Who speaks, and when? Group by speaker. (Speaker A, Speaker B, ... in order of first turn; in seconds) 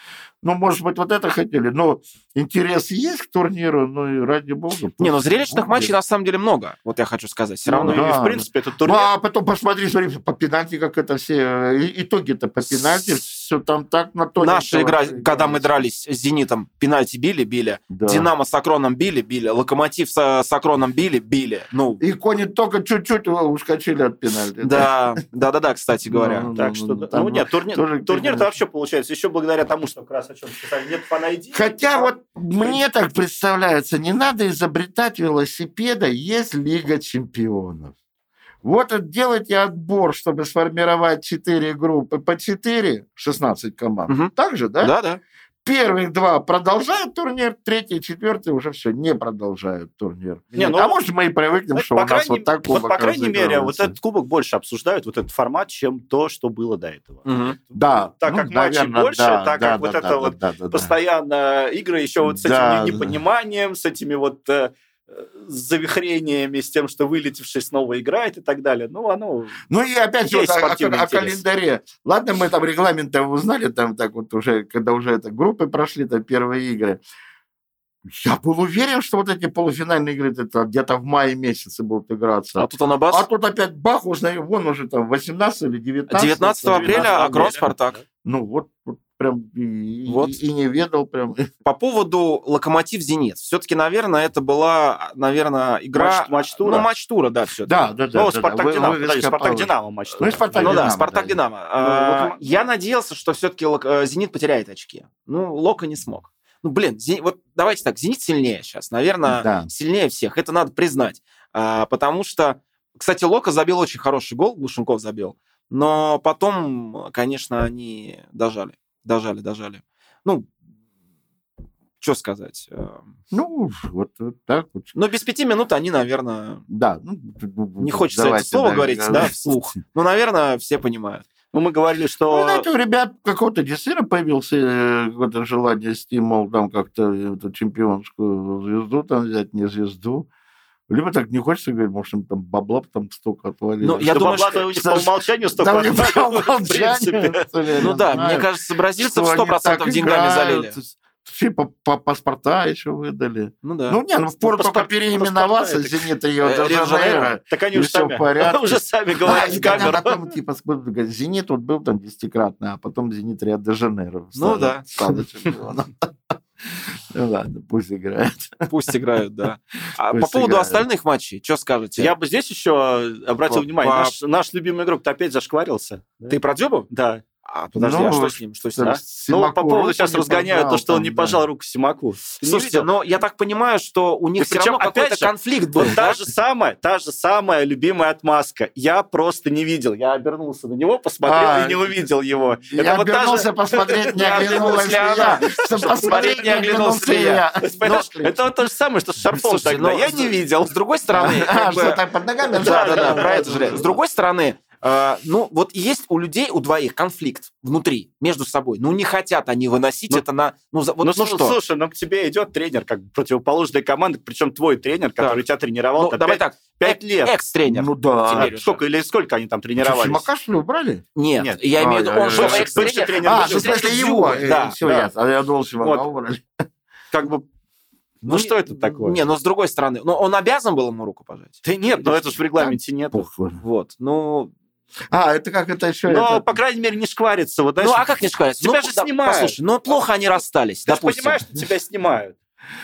Speaker A: 0.4-5.9, 7.8-15.8, 17.9-18.3, 22.0-25.2, 26.1-28.5, 31.5-38.0, 38.6-44.9, 45.6-54.0, 57.8-60.9, 62.2-63.2, 69.7-77.0, 78.1-87.6, 88.2-91.5, 97.7-101.4, 109.2-109.7, 123.3-124.9, 126.7-129.6, 132.3-140.3, 140.9-166.1, 166.7-168.7, 170.1-170.8, 177.8-181.4, 191.2-191.9, 192.8-198.4, 201.1-203.9, 217.7-218.5, 219.8-221.1, 221.8-226.4, 233.1-233.6, 235.1-236.5
Speaker B: 5.0-8.2, 14.4-22.0, 24.6-26.5, 44.1-45.2, 57.2-57.6, 82.6-83.2, 86.1-88.0, 90.1-90.4, 91.7-97.8, 100.6-120.5, 122.0-123.0, 124.9-126.6, 127.8-131.2, 143.8-144.8, 147.8-150.8, 153.6-154.0, 156.4-157.4, 164.4-164.8, 168.7-172.2, 173.5-174.1, 176.3-176.9, 177.5-179.0, 182.4-186.2, 194.1-198.0, 199.3-202.0, 202.6-211.6, 216.0-218.8, 221.2-224.8, 228.2-232.7, 233.6-234.5, 237.8-241.4
Speaker C: 7.7-9.1, 26.5-32.8, 50.6-51.0, 51.7-69.6, 70.3-71.4, 86.6-88.0, 95.9-96.9, 98.2-101.0, 101.8-102.4, 131.5-132.7, 144.1-147.9, 154.4-156.1, 157.5-160.3, 172.0-176.4, 176.9-177.2, 178.8-182.9, 184.4-196.7, 197.6-201.3, 202.6-203.9, 211.0-217.3, 218.3-220.3, 221.4-221.6, 222.3-225.1, 225.8-226.1, 227.1-227.4, 228.2-229.2, 231.6-233.3, 236.1-240.0, 240.9-242.4